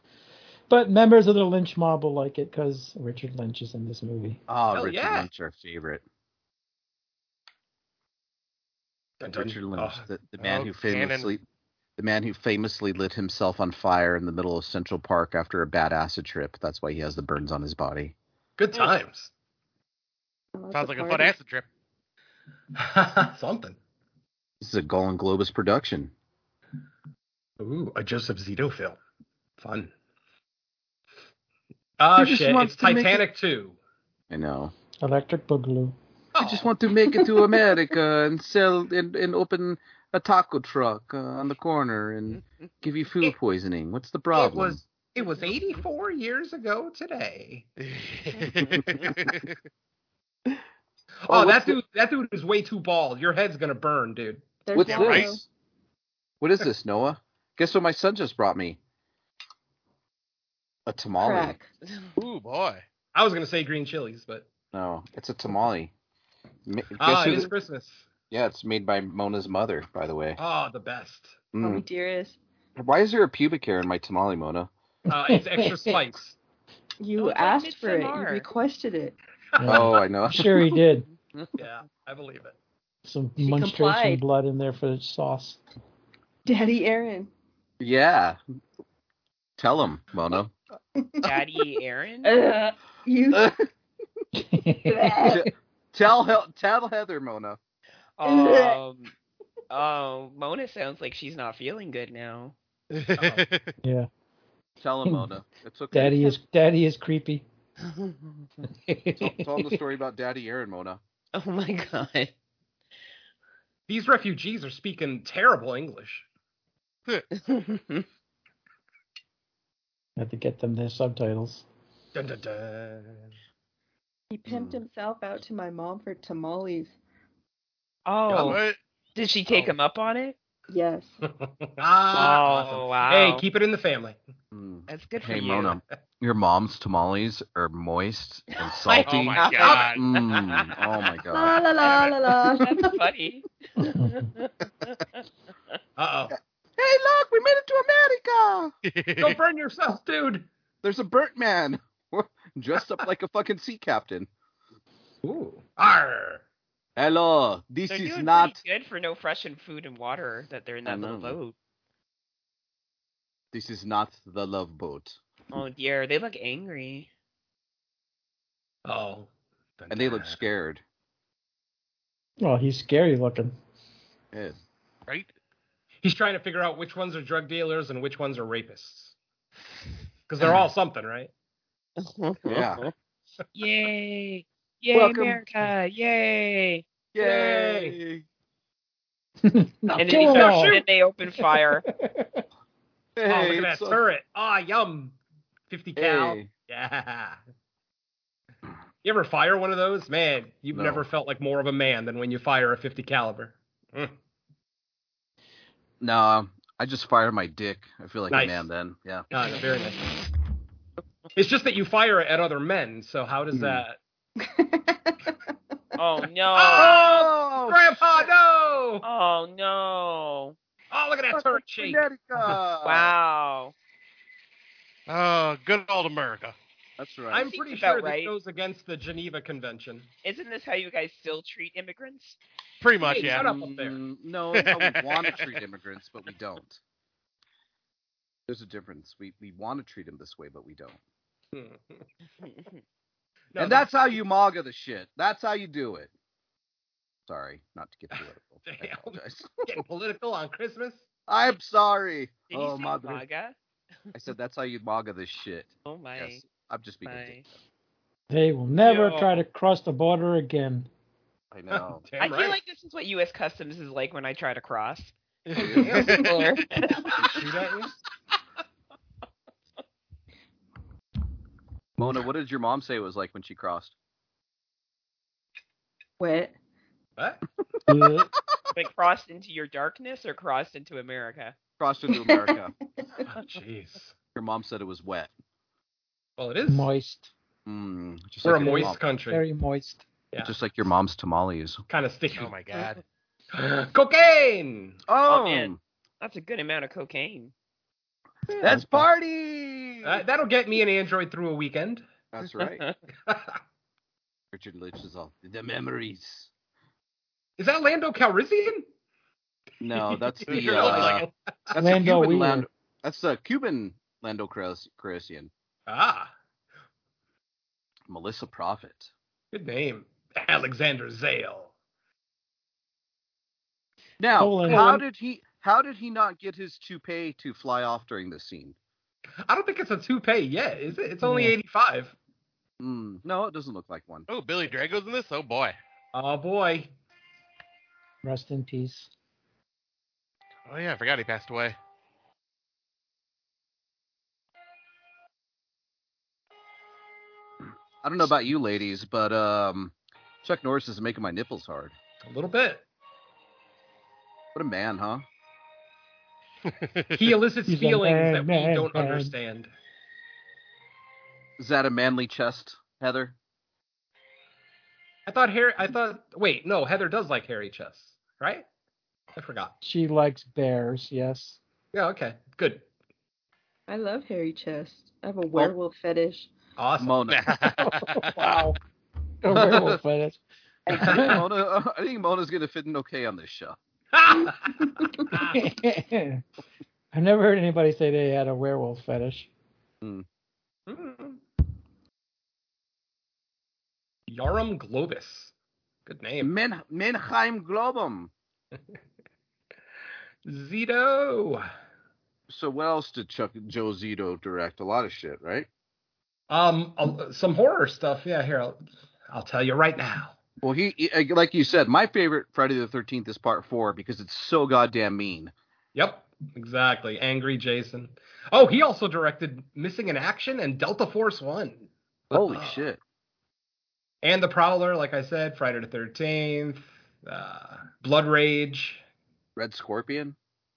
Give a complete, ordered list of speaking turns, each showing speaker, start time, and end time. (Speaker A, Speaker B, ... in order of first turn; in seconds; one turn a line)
Speaker A: 0.7-4.4
Speaker B: 4.5-6.0
Speaker C: 4.7-5.3
Speaker C: 9.2-10.0
Speaker B: 9.2-11.4
Speaker D: 10.4-11.3
Speaker B: 12.0-18.1
Speaker C: 18.6-19.3
Speaker E: 20.5-21.3
Speaker D: 20.7-21.6
Speaker C: 22.8-23.8
Speaker B: 24.6-26.1
Speaker C: 27.6-29.0
Speaker C: 29.6-29.9
Speaker C: 32.0-33.8
Speaker B: 32.1-33.2
Speaker B: 34.3-34.7
Speaker A: 35.0-35.9
Speaker C: 36.3-36.7
Speaker B: 36.4-44.8
Speaker E: 37.1-37.6
Speaker C: 44.3-47.7
Speaker D: 47.8-49.6
Speaker C: 51.2-54.6
Speaker B: 51.3-51.8
Speaker E: 54.6-55.4
Speaker B: 54.7-55.4
Speaker D: 54.8-55.3
Speaker B: 56.4-58.8
Speaker B: 60.9-61.5
Speaker E: 61.2-61.7
Speaker F: 61.9-62.1
Speaker D: 62.1-62.8
Speaker C: 63.1-64.5
Speaker B: 64.7-65.9
Speaker B: 66.7-67.5
Speaker C: 67.0-68.1
Speaker B: 68.3-70.4
Speaker C: 70.4-71.5
Speaker B: 71.5-71.8
Speaker E: 71.6-72.4
Speaker B: 72.8-74.7
Speaker C: 75.1-76.3
Speaker A: 75.1-76.0
Speaker E: 77.0-79.1
Speaker F: 77.2-78.5
Speaker A: 79.6-81.1
Speaker B: 79.6-80.7
Speaker F: 81.1-81.5
Speaker C: 81.5-82.5
Speaker A: 83.0-85.6
Speaker E: 83.4-84.2
Speaker E: 86.5-87.3
Speaker B: 87.8-88.4
Speaker B: 89.6-90.5
Speaker E: 91.0-91.6
Speaker F: 91.2-92.3
Speaker E: 92.2-93.6
Speaker A: 94.3-95.1
Speaker E: 94.8-95.5
Speaker B: 95.2-97.6
Speaker F: 98.2-99.1
Speaker E: 98.2-98.8
Speaker F: 99.7-102.5
Speaker D: 102.9-103.7
Speaker C: 103.2-103.4
Speaker A: 103.8-104.1
Speaker B: 104.8-106.3
Speaker A: 105.9-107.4
Speaker F: 107.8-108.2
Speaker A: 108.8-109.7
Speaker B: 109.2-111.0
Speaker F: 111.3-112.3
Speaker C: 113.9-116.2
Speaker F: 117.3-118.0
Speaker A: 120.2-121.6
Speaker C: 122.1-123.3
Speaker E: 124.3-126.9
Speaker B: 124.5-124.8
Speaker F: 128.1-128.6
Speaker D: 128.3-128.8
Speaker C: 128.3-128.6
Speaker F: 129.2-130.3
Speaker E: 130.7-131.2
Speaker C: 131.4-134.2
Speaker F: 132.1-133.4
Speaker B: 134.5-141.7
Speaker F: 134.9-135.8
Speaker F: 138.6-139.9
Speaker D: 139.1-140.0
Speaker C: 139.6-139.9
Speaker E: 141.3-143.0
Speaker F: 141.8-145.0
Speaker A: 143.8-144.3
Speaker C: 146.0-146.3
Speaker B: 146.8-148.7
Speaker D: 148.8-149.4
Speaker C: 149.2-150.5
Speaker B: 150.8-154.3
Speaker C: 155.2-156.4
Speaker B: 156.9-158.6
Speaker F: 157.9-161.5
Speaker B: 160.8-161.4
Speaker B: 163.5-165.2
Speaker F: 165.5-167.1
Speaker C: 168.8-170.3
Speaker B: 169.9-170.8
Speaker A: 172.4-173.5
Speaker B: 174.3-174.6
Speaker C: 176.0-179.1
Speaker C: 180.3-181.3
Speaker F: 182.0-182.9
Speaker B: 182.4-182.8
Speaker F: 183.5-186.8
Speaker B: 184.9-185.4
Speaker B: 187.1-188.2
Speaker C: 187.2-187.9
Speaker A: 189.4-190.8
Speaker F: 190.0-191.8
Speaker C: 190.1-190.8
Speaker A: 192.1-192.4
Speaker B: 193.2-194.0
Speaker C: 193.3-195.2
Speaker C: 195.7-197.4
Speaker B: 195.9-196.5
Speaker C: 199.0-204.1
Speaker B: 200.7-201.0
Speaker B: 206.0-209.2
Speaker C: 208.3-208.7
Speaker C: 209.3-210.0
Speaker C: 211.3-214.0
Speaker B: 213.5-213.8
Speaker E: 214.4-215.3
Speaker F: 216.0-217.1
Speaker C: 216.5-219.1
Speaker B: 216.7-217.8
Speaker F: 219.0-220.6
Speaker C: 220.9-222.6
Speaker B: 221.3-223.1
Speaker F: 222.8-223.7
Speaker D: 225.1-226.5
Speaker B: 227.0-227.5
Speaker C: 227.3-230.1
Speaker F: 227.5-228.3
Speaker F: 230.2-232.4
Speaker D: 232.8-233.4
Speaker C: 233.0-234.0
Speaker B: 233.2-236.8
Speaker D: 234.6-235.2
Speaker B: 238.5-241.0
Speaker C: 241.5-242.0
Speaker F: 242.4-242.7
Speaker C: 243.5-243.9
Speaker B: 243.6-246.1
Speaker B: 247.3-249.8
Speaker C: 248.1-251.0
Speaker B: 251.3-253.2
Speaker F: 252.5-253.5
Speaker B: 254.1-257.4
Speaker F: 255.8-256.4
Speaker F: 257.1-257.4
Speaker A: 258.3-260.9
Speaker B: 261.5-262.0
Speaker C: 261.7-262.6
Speaker F: 262.2-265.1
Speaker D: 265.5-266.6
Speaker B: 265.6-265.9
Speaker E: 265.6-266.3
Speaker C: 265.8-266.2
Speaker F: 266.1-267.2
Speaker C: 267.1-267.9
Speaker B: 272.0-273.9
Speaker E: 276.2-276.5
Speaker C: 277.2-277.4
Speaker A: 277.9-278.3
Speaker F: 278.7-281.5
Speaker B: 281.8-282.7
Speaker E: 282.1-282.6
Speaker C: 283.3-284.1
Speaker B: 284.3-285.3
Speaker C: 286.4-286.9
Speaker A: 286.7-287.3
Speaker B: 287.6-289.0
Speaker C: 288.4-289.4
Speaker A: 288.6-290.0
Speaker B: 290.4-291.8
Speaker C: 291.9-292.5
Speaker D: 292.4-293.0
Speaker C: 293.6-295.0
Speaker B: 295.1-295.8
Speaker F: 295.3-297.5
Speaker A: 298.5-299.1
Speaker B: 298.6-300.2
Speaker C: 300.0-302.1
Speaker B: 302.3-302.9
Speaker C: 303.3-303.6
Speaker B: 304.5-306.5
Speaker C: 307.6-308.9
Speaker B: 309.8-315.5
Speaker C: 310.1-311.8
Speaker D: 310.5-311.2
Speaker A: 311.8-312.7
Speaker C: 315.9-316.3
Speaker B: 318.1-319.1
Speaker C: 319.5-321.7
Speaker B: 324.2-328.8
Speaker A: 324.4-325.0
Speaker C: 329.5-332.1
Speaker A: 331.2-331.5
Speaker B: 332.8-334.3
Speaker D: 334.3-335.8
Speaker C: 336.1-336.9
Speaker A: 338.2-339.1
Speaker D: 340.7-341.8
Speaker B: 348.0-351.9
Speaker C: 352.2-352.8
Speaker B: 354.5-355.2
Speaker D: 356.7-357.2
Speaker C: 357.1-359.7
Speaker A: 357.7-359.3
Speaker B: 361.6-363.4
Speaker C: 365.3-368.6
Speaker C: 369.3-369.7
Speaker A: 369.8-371.6
Speaker C: 371.9-372.9
Speaker E: 373.9-376.5
Speaker C: 376.8-377.3
Speaker B: 377.0-377.5
Speaker D: 377.3-378.3
Speaker A: 377.8-378.8
Speaker A: 379.4-381.4
Speaker B: 379.5-380.0
Speaker B: 380.9-383.8
Speaker C: 380.9-381.4
Speaker C: 384.1-385.8
Speaker A: 385.5-386.4
Speaker A: 387.1-389.5
Speaker C: 390.9-391.4
Speaker C: 394.3-395.5
Speaker C: 396.1-396.5
Speaker B: 396.4-398.3
Speaker C: 400.4-401.6
Speaker B: 402.5-405.7
Speaker C: 406.5-410.4
Speaker B: 410.6-415.5
Speaker C: 415.9-422.8
Speaker B: 422.3-423.0
Speaker C: 424.2-429.0
Speaker B: 429.6-430.4